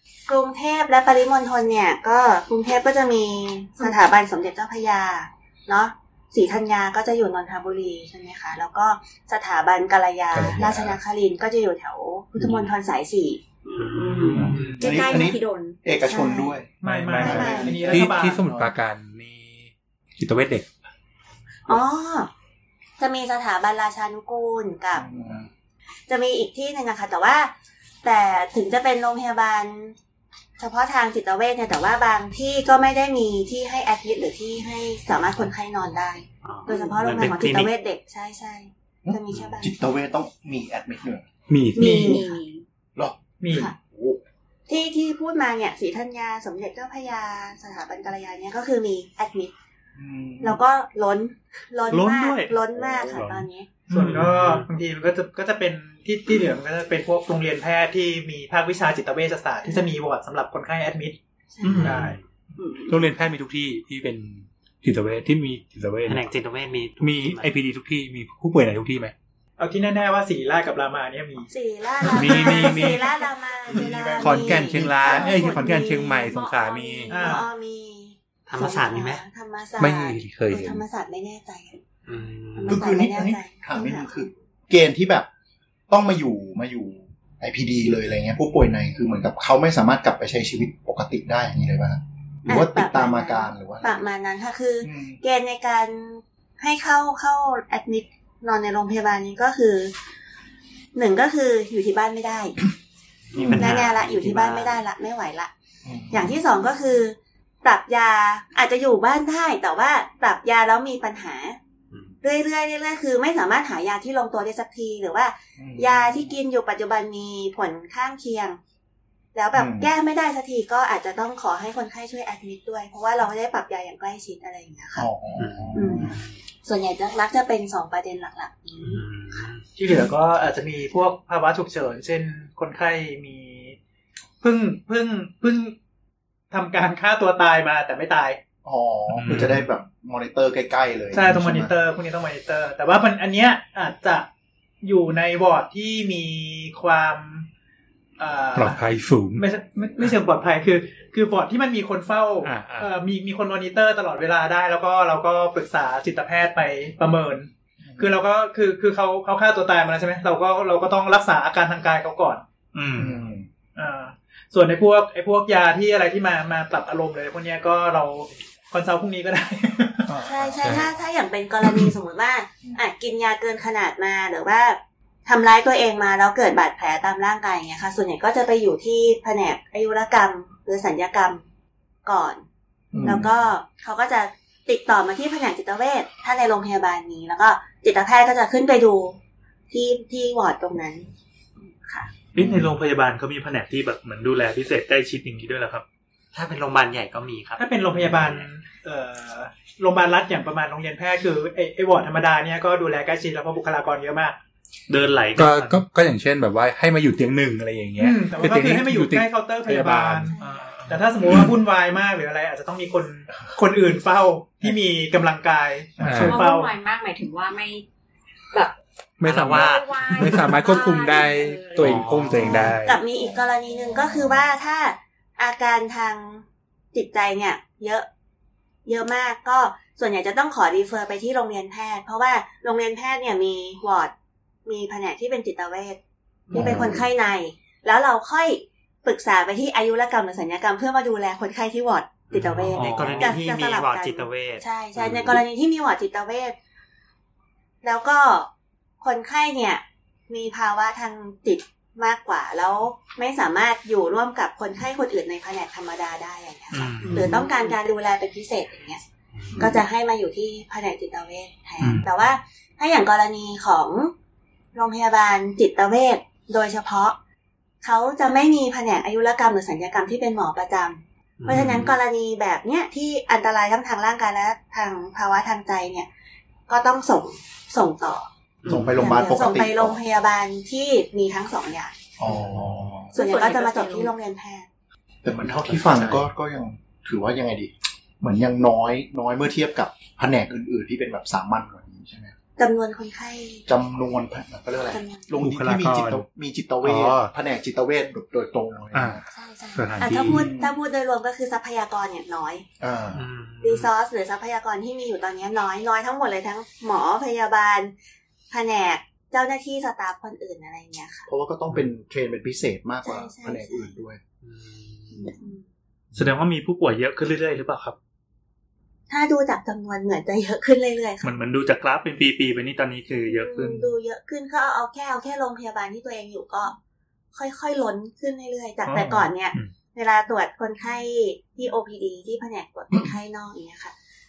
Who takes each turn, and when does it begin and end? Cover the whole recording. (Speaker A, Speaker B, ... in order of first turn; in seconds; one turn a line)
Speaker A: 0.3-13.4
Speaker B: 10.3-10.7
Speaker C: 10.5-10.9
Speaker D: 13.6-15.8
Speaker E: 13.9-14.8
Speaker F: 14.5-14.8
Speaker C: 14.7-18.7
Speaker A: 16.0-16.6
Speaker F: 16.8-18.5
Speaker B: 16.8-20.7
Speaker A: 17.2-17.8
Speaker A: 21.7-22.3
Speaker A: 23.0-25.0
Speaker C: 24.9-25.5
Speaker A: 26.1-27.5
Speaker A: 28.0-29.9
Speaker A: 30.6-39.7
Speaker E: 36.4-37.7
Speaker C: 39.0-41.3
Speaker B: 41.5-42.2
Speaker A: 41.8-42.4
Speaker F: 41.8-42.2
Speaker D: 41.8-42.6
Speaker F: 43.4-43.7
Speaker C: 43.9-44.2
Speaker A: 44.7-49.5
Speaker C: 50.0-50.6
Speaker A: 50.4-53.7
Speaker G: 51.9-54.6
Speaker C: 52.7-53.3
Speaker F: 53.9-61.2
Speaker E: 54.1-54.6
Speaker A: 59.6-59.9
Speaker A: 61.6-62.0
Speaker G: 61.6-62.1
Speaker F: 61.8-62.1
Speaker E: 61.8-62.2
Speaker D: 62.6-63.1
Speaker B: 62.9-66.3
Speaker E: 66.1-67.5
Speaker B: 67.0-69.1
Speaker F: 69.6-71.5
Speaker A: 71.5-81.8
Speaker B: 72.1-73.1
Speaker C: 73.7-75.5
Speaker B: 74.2-77.2
Speaker D: 76.3-77.1
Speaker F: 77.1-77.5
Speaker E: 78.5-79.2
Speaker B: 79.8-80.8
Speaker E: 82.1-82.9
Speaker A: 82.6-84.3
Speaker C: 82.7-85.3
Speaker C: 85.9-94.1
Speaker A: 92.5-99.9
Speaker C: 94.8-95.2
Speaker A: 100.9-102.6
Speaker E: 103.3-104.8
Speaker C: 103.3-103.9
Speaker A: 103.5-105.5
Speaker C: 105.8-106.3
Speaker A: 106.1-111.6
Speaker E: 111.9-112.2
Speaker A: 112.2-118.6
Speaker C: 115.6-116.3
Speaker A: 119.3-125.1
Speaker C: 119.5-119.9
Speaker C: 124.9-126.2
Speaker E: 125.4-126.3
Speaker A: 125.8-129.1
Speaker E: 128.8-129.6
Speaker F: 129.8-133.8
Speaker F: 134.4-135.8
Speaker F: 136.5-138.4
Speaker C: 138.6-141.7
Speaker G: 139.2-139.6
Speaker F: 141.1-144.3
Speaker F: 144.8-147.5
Speaker F: 148.2-148.8
Speaker B: 148.5-149.4
Speaker F: 149.4-162.4
Speaker G: 152.4-152.9
Speaker C: 157.9-158.2
Speaker G: 162.7-163.2
Speaker C: 163.0-163.5
Speaker F: 163.8-170.1
Speaker C: 170.1-170.9
Speaker A: 170.2-181.4
Speaker B: 170.6-170.9
Speaker A: 182.0-182.4
Speaker C: 182.9-183.3
Speaker A: 183.0-189.2
Speaker A: 189.7-191.1
Speaker G: 192.3-195.8
Speaker E: 196.3-198.5
Speaker F: 197.6-204.4
Speaker G: 204.9-205.8
Speaker B: 205.3-210.3
Speaker F: 208.0-210.4
Speaker G: 210.4-211.0
Speaker F: 210.9-216.7
Speaker C: 216.0-216.4
Speaker B: 216.0-216.4
Speaker D: 216.1-217.8
Speaker B: 219.2-223.0
Speaker E: 219.2-220.6
Speaker D: 219.5-222.1
Speaker E: 221.8-222.8
Speaker C: 222.0-224.5
Speaker A: 222.7-228.1
Speaker A: 228.8-234.1
Speaker A: 234.7-236.0
Speaker C: 236.5-237.1
Speaker A: 236.5-246.6
Speaker E: 242.3-245.4
Speaker G: 242.6-243.4
Speaker A: 247.8-248.5
Speaker A: 249.0-259.0
Speaker G: 256.7-257.4
Speaker E: 257.0-257.4
Speaker D: 257.3-257.8
Speaker E: 259.4-259.8
Speaker A: 259.6-264.1
Speaker G: 261.8-262.1
Speaker A: 264.7-267.2
Speaker A: 267.8-276.1
Speaker G: 271.4-271.9
Speaker A: 276.7-278.3
Speaker E: 278.6-278.9
Speaker C: 278.7-280.0
Speaker A: 279.0-282.0
Speaker C: 282.2-283.1
Speaker A: 283.1-284.7
Speaker D: 283.1-284.1
Speaker C: 285.2-292.3
Speaker B: 285.8-286.2
Speaker A: 292.6-293.6
Speaker C: 293.7-299.2
Speaker A: 294.9-295.4
Speaker B: 295.4-296.2
Speaker B: 296.8-297.3
Speaker B: 298.9-299.2
Speaker A: 299.3-302.6
Speaker B: 299.8-300.5
Speaker C: 300.2-300.7
Speaker C: 302.8-303.2
Speaker E: 303.1-303.9
Speaker A: 303.6-307.9
Speaker A: 308.5-311.3
Speaker C: 311.3-314.2
Speaker A: 313.0-314.0
Speaker E: 314.4-315.4
Speaker A: 315.2-315.6
Speaker G: 316.1-318.0
Speaker A: 319.1-321.3
Speaker G: 321.2-323.9
Speaker A: 323.3-326.8
Speaker A: 327.3-333.9
Speaker G: 328.9-329.7